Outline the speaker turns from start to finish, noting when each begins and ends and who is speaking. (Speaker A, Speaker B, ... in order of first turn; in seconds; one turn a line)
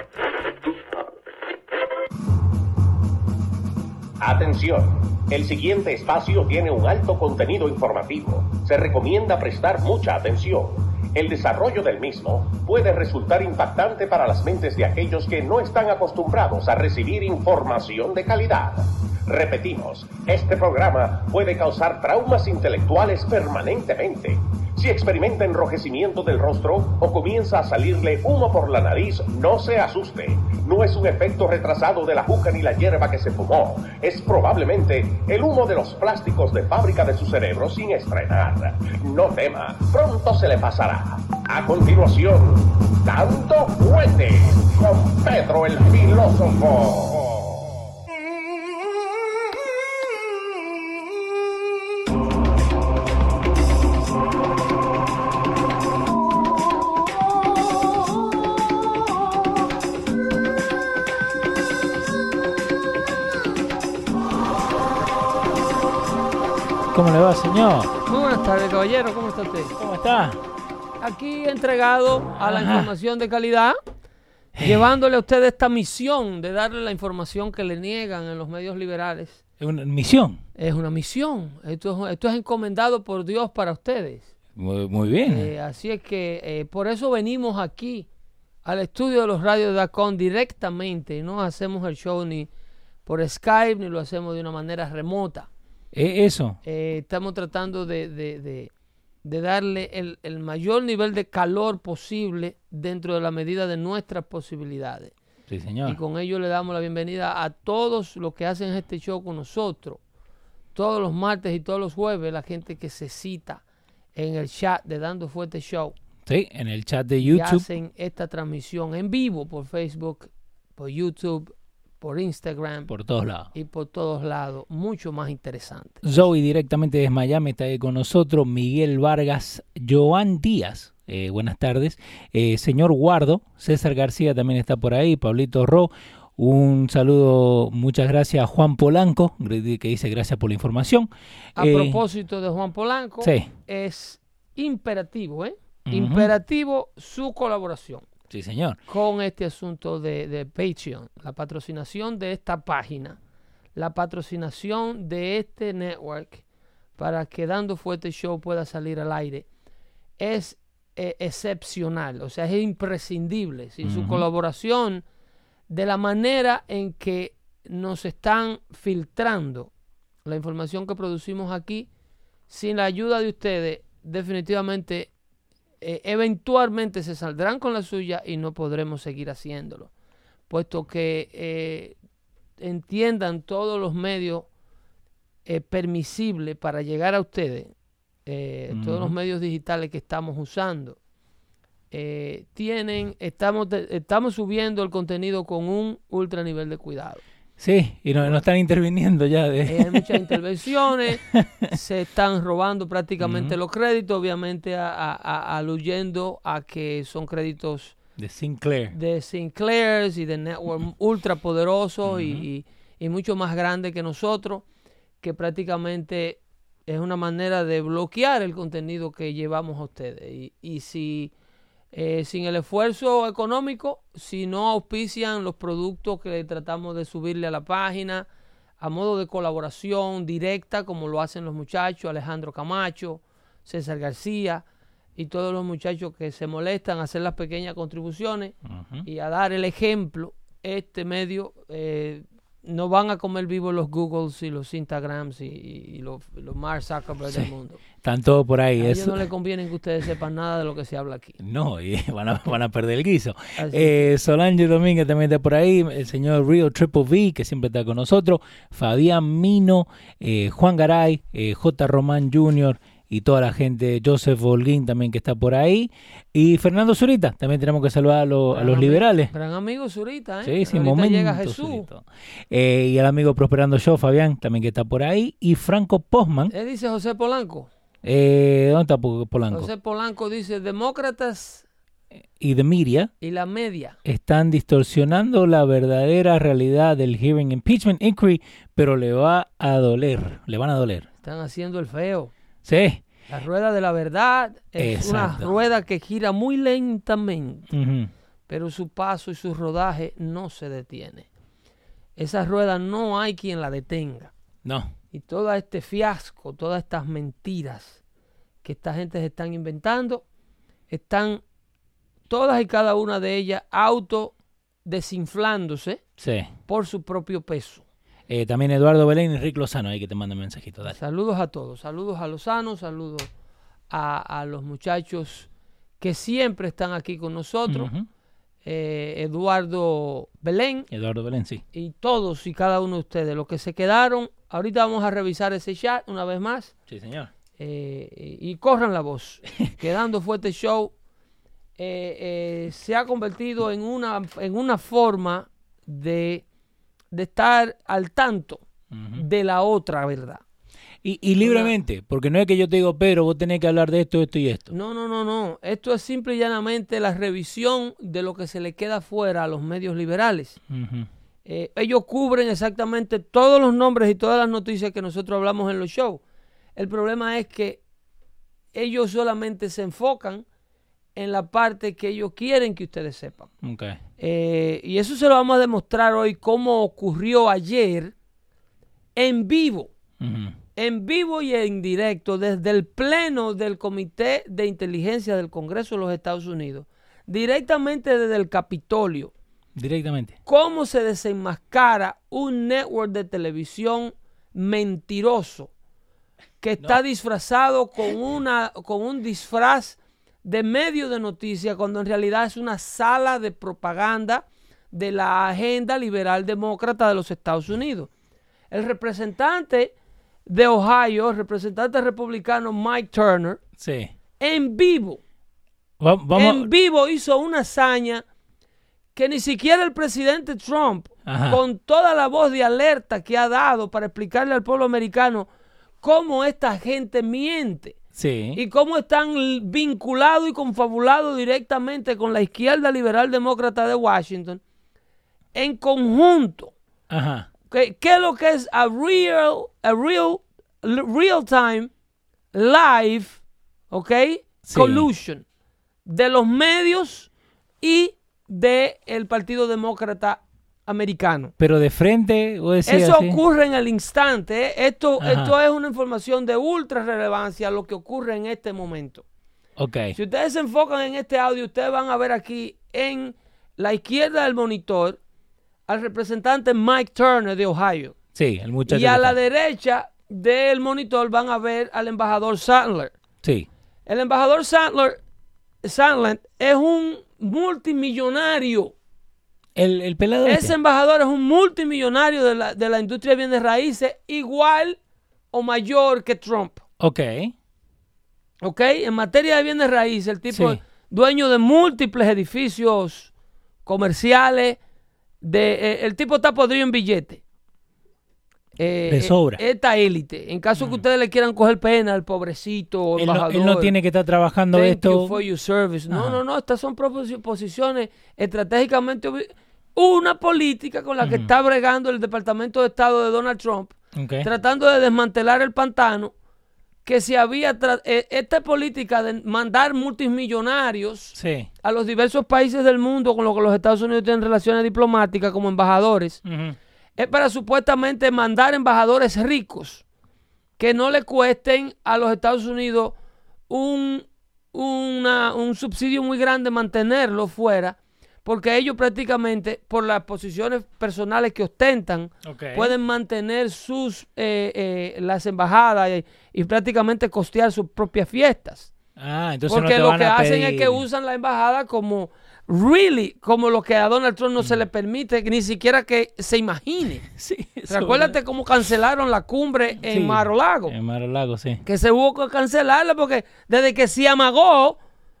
Speaker A: 4.2-47.7
Speaker B: 66.9-67.9
Speaker C: 68.0-69.7
Speaker B: 69.8-70.4
Speaker C: 71.0-73.8
Speaker B: 72.4-72.9
Speaker B: 74.5-74.8
Speaker C: 74.6-79.4
Speaker B: 79.6-80.4
Speaker C: 80.6-84.3
Speaker B: 84.5-85.5
Speaker C: 85.2-88.1
Speaker C: 88.6-92.5
Speaker C: 93.0-95.5
Speaker B: 95.9-96.6
Speaker C: 96.6-98.7
Speaker C: 99.2-105.1
Speaker B: 105.5-106.0
Speaker C: 105.8-110.0
Speaker C: 110.7-113.6
Speaker C: 114.1-115.9
Speaker B: 116.2-117.7
Speaker C: 117.2-122.9
Speaker B: 122.9-123.5
Speaker C: 123.5-126.3
Speaker B: 126.0-142.0
Speaker C: 141.6-148.1
Speaker B: 143.2-143.5
Speaker B: 145.9-146.3
Speaker B: 148.3-148.8
Speaker C: 148.9-153.2
Speaker C: 153.7-156.4
Speaker C: 157.0-159.4
Speaker C: 160.2-165.0
Speaker B: 163.8-164.2
Speaker C: 165.7-169.7
Speaker C: 170.2-171.9
Speaker C: 172.5-175.1
Speaker C: 175.8-179.9
Speaker C: 180.5-182.0
Speaker C: 182.6-184.5
Speaker C: 185.4-187.7
Speaker C: 188.2-191.0
Speaker B: 188.7-189.1
Speaker C: 191.9-197.2
Speaker B: 197.6-200.3
Speaker C: 198.2-198.4
Speaker C: 199.7-208.0
Speaker B: 201.2-201.7
Speaker B: 203.2-203.6
Speaker B: 208.2-208.9
Speaker C: 208.9-214.6
Speaker B: 212.1-212.4
Speaker C: 215.2-221.3
Speaker C: 221.9-228.3
Speaker C: 228.8-234.6
Speaker C: 235.2-238.5
Speaker B: 238.7-239.1
Speaker C: 239.1-247.8
Speaker B: 248.0-249.2
Speaker C: 248.8-251.3
Speaker B: 251.4-269.3
Speaker C: 253.6-254.1
Speaker C: 268.5-271.9
Speaker B: 270.4-276.5
Speaker C: 276.5-277.7
Speaker B: 278.0-279.7
Speaker C: 279.5-281.6
Speaker B: 282.4-283.1
Speaker C: 283.2-284.0
Speaker B: 284.0-291.1
Speaker C: 291.2-292.3
Speaker B: 292.6-293.0
Speaker C: 293.3-297.7
Speaker B: 294.8-295.5
Speaker B: 297.7-298.1
Speaker C: 298.5-301.3
Speaker C: 302.2-304.3
Speaker B: 304.6-304.9
Speaker C: 305.1-308.0
Speaker C: 308.6-310.2
Speaker C: 310.9-311.4
Speaker C: 312.3-314.3
Speaker C: 314.8-316.0
Speaker B: 316.2-316.5
Speaker C: 316.7-317.8
Speaker B: 318.3-320.9
Speaker C: 320.9-323.3
Speaker C: 323.9-325.5
Speaker C: 326.0-327.9
Speaker B: 327.7-328.1
Speaker C: 328.6-330.9
Speaker B: 330.9-331.6
Speaker C: 331.7-336.7
Speaker B: 336.9-337.3
Speaker C: 337.6-340.9
Speaker C: 341.8-346.4
Speaker C: 347.1-348.6
Speaker B: 348.9-349.2
Speaker C: 349.1-350.4
Speaker B: 351.0-354.7
Speaker C: 351.4-351.7
Speaker C: 354.7-360.6
Speaker B: 360.7-361.1
Speaker C: 361.4-366.2
Speaker C: 366.8-367.8
Speaker C: 368.7-370.4
Speaker C: 371.1-373.5
Speaker B: 373.6-374.0
Speaker C: 374.2-378.1
Speaker C: 379.1-379.9
Speaker B: 380.2-380.5
Speaker C: 380.8-389.3
Speaker B: 389.8-390.4
Speaker C: 390.4-395.7
Speaker C: 396.6-408.1
Speaker C: 408.7-409.9
Speaker C: 410.4-413.6
Speaker B: 413.8-414.1
Speaker C: 414.4-415.2
Speaker B: 416.0-416.7
Speaker C: 416.3-418.2
Speaker C: 419.1-425.5
Speaker B: 421.3-421.6
Speaker C: 426.0-428.0
Speaker B: 428.1-428.6
Speaker C: 428.5-434.6
Speaker C: 435.5-436.7
Speaker B: 437.1-437.5
Speaker C: 437.7-441.9
Speaker C: 442.5-445.4
Speaker B: 444.6-445.1
Speaker C: 446.1-447.3
Speaker C: 447.8-451.5
Speaker B: 451.6-453.4
Speaker C: 452.9-459.2
Speaker B: 455.2-455.5
Speaker B: 459.8-460.1
Speaker C: 460.1-465.2
Speaker C: 465.9-468.1
Speaker B: 468.3-469.4
Speaker C: 468.9-473.1
Speaker C: 474.1-475.2
Speaker C: 475.8-478.9
Speaker B: 479.8-480.7
Speaker C: 480.4-485.0
Speaker C: 485.5-486.8
Speaker B: 487.0-487.5
Speaker C: 488.6-493.3
Speaker B: 490.5-490.8
Speaker C: 493.8-494.8
Speaker C: 495.4-497.4
Speaker C: 498.8-503.9
Speaker B: 499.1-499.6
Speaker B: 503.2-505.4
Speaker C: 504.7-516.3
Speaker B: 506.1-506.4
Speaker B: 511.2-511.5
Speaker B: 514.1-514.5
Speaker C: 517.0-526.4
Speaker B: 521.4-521.7
Speaker B: 526.5-526.8
Speaker C: 527.2-530.0
Speaker C: 530.8-533.1
Speaker C: 533.7-548.9
Speaker B: 542.4-542.9
Speaker B: 549.2-551.0
Speaker C: 549.7-557.2
Speaker B: 557.3-558.4
Speaker C: 557.9-560.9
Speaker B: 560.0-561.8
Speaker C: 561.8-565.0